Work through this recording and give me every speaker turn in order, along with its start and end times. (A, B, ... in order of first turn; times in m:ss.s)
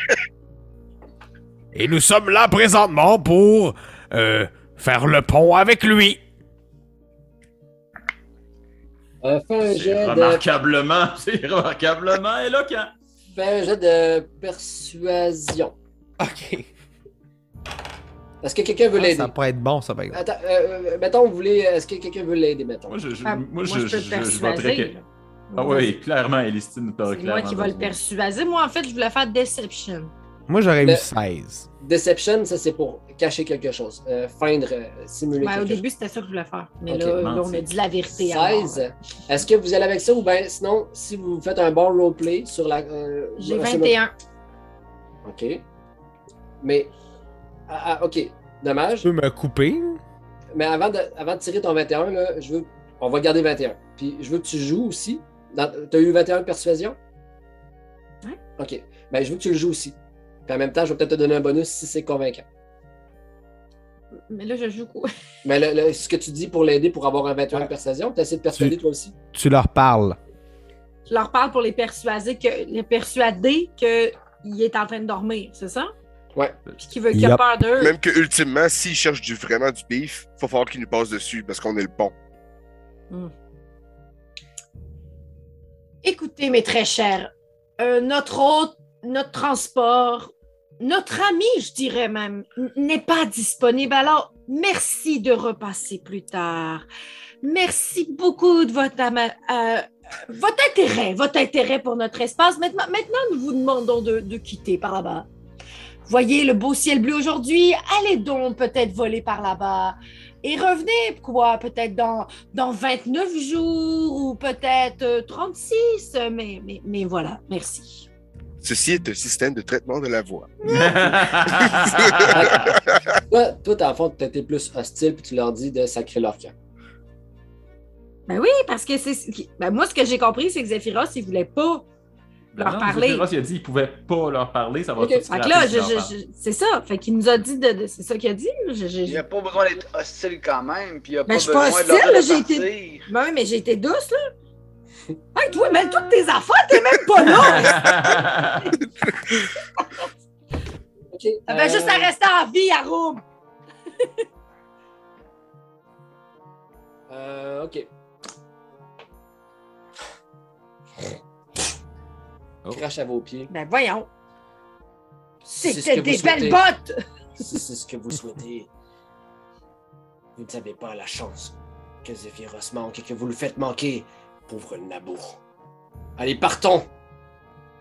0:01.7-0:06.2 A
0:09.2-0:10.4 B
0:09.6-0:12.9 C
0:13.3-0:15.7 B
0:16.2-0:16.7 D
0:18.4-0:19.3 B
0:18.9-0:20.2 D
0:20.1-0:23.0 B
0:22.9-0:24.9 C
0:23.2-0:25.9 E
0:25.6-0:27.9 C
0:27.1-0:30.1 E
0:30.5-0:31.7 D
0:31.8-0:35.8 B
0:35.4-0:38.8 E
0:36.9-0:37.2 B
0:37.2-0:37.7 C
0:38.2-0:44.0 B
0:43.4-0:44.1 E
0:45.2-0:45.6 B
0:46.6-0:46.9 B
0:47.7-0:49.1 B
0:49.0-0:50.0 D
0:50.5-0:57.0 B
0:58.6-1:00.0 B
1:00.5-1:02.4 B
1:04.3-1:05.1 E
1:05.4-1:09.1 B
1:09.3-1:10.2 D
1:11.1-1:15.9 E
1:16.8-1:17.9 E
1:17.1-1:17.4 D
1:17.8-1:22.1 F
1:26.0-1:36.8 E
1:37.4-1:45.3 E
1:46.1-1:58.1 E
1:58.6-2:00.5 F
2:00.6-2:02.7 C
2:01.9-2:02.3 F
2:02.3-2:02.7 B
2:03.3-2:06.5 B
2:08.3-2:11.8 E
2:12.5-2:16.1 C
2:12.6-2:13.3 E
2:15.0-2:15.2 B
2:15.3-2:19.2 E
2:19.0-2:23.1 G
2:21.3-2:24.3 E
2:25.4-2:28.2 E
2:27.5-2:28.7 C
2:31.1-2:32.1 B
2:31.5-2:33.2 E
2:37.1-2:37.9 B
2:42.7-2:43.5 B
2:43.5-2:44.1 E
2:45.4-2:46.6 B
2:45.6-2:47.0 E
2:47.4-2:48.7 B
2:50.4-2:55.4 B
2:56.2-2:56.9 B